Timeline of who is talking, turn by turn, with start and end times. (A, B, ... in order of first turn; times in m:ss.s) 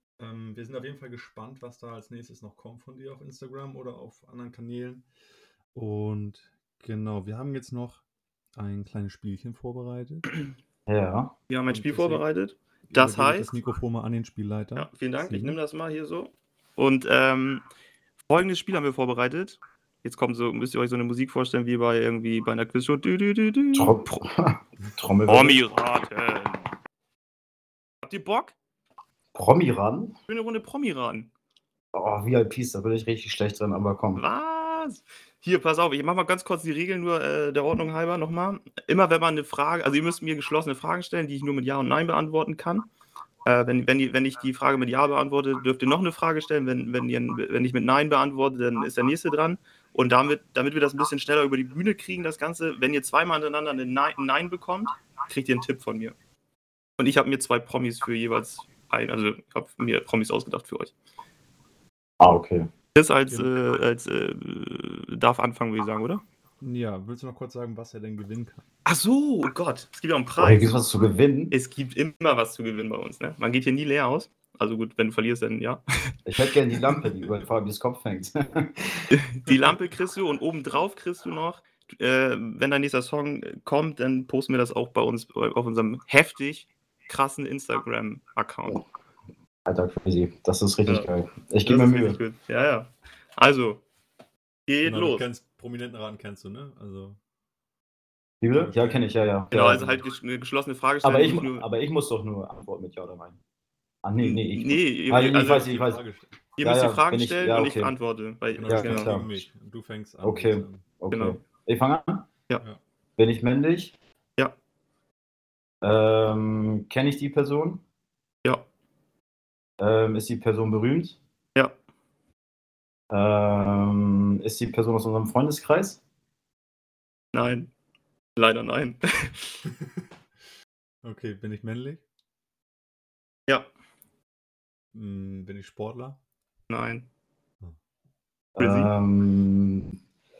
0:00.2-0:05.0 A
0:05.7-0:08.0 A
0:08.6-0:10.3 A
0:10.9-0:11.3 B
0:11.5-0:13.5 C
0:11.7-0:12.2 A
0:12.9-0:15.6 A
0:14.7-0:17.6 C
0:18.3-0:24.0 C
0:23.7-0:25.6 B
0:25.3-0:26.7 C
0:28.0-0:28.5 C
0:29.3-0:30.2 B
0:30.3-0:31.3 C
0:31.9-0:34.2 B
0:34.2-0:42.9 C
0:43.4-0:56.1 C
0:57.0-1:00.9 C
1:02.2-1:02.7 B
1:02.9-1:06.2 C
1:06.6-1:08.6 A
1:08.8-1:10.8 C
1:10.4-1:11.5 B
1:11.5-1:16.1 C
1:16.2-1:19.1 B
1:19.1-1:28.8 C
1:29.6-1:32.2 B
1:31.6-1:33.8 C
1:34.7-1:35.2 C
1:34.8-1:37.2 A
1:38.4-1:39.8 B
1:38.5-1:40.0 A
1:39.5-1:41.6 C
1:41.0-1:43.4 B
1:44.0-1:46.0 B
1:44.2-1:45.7 C
1:45.1-1:46.3 A
1:46.6-1:49.2 C
1:46.6-1:48.0 B
1:48.6-1:50.8 A
1:48.6-1:49.4 B
1:50.2-1:52.3 B
1:51.1-1:51.4 C
1:53.2-1:54.0 B
1:55.8-1:57.8 B
1:59.8-2:01.2 B
2:03.1-2:06.0 B
2:07.3-2:07.7 C
2:08.4-2:09.6 C
2:09.6-2:10.0 A
2:11.0-2:12.0 A
2:14.9-2:16.2 A
2:16.7-2:17.0 C
2:18.6-2:20.0 B
2:18.6-2:18.9 C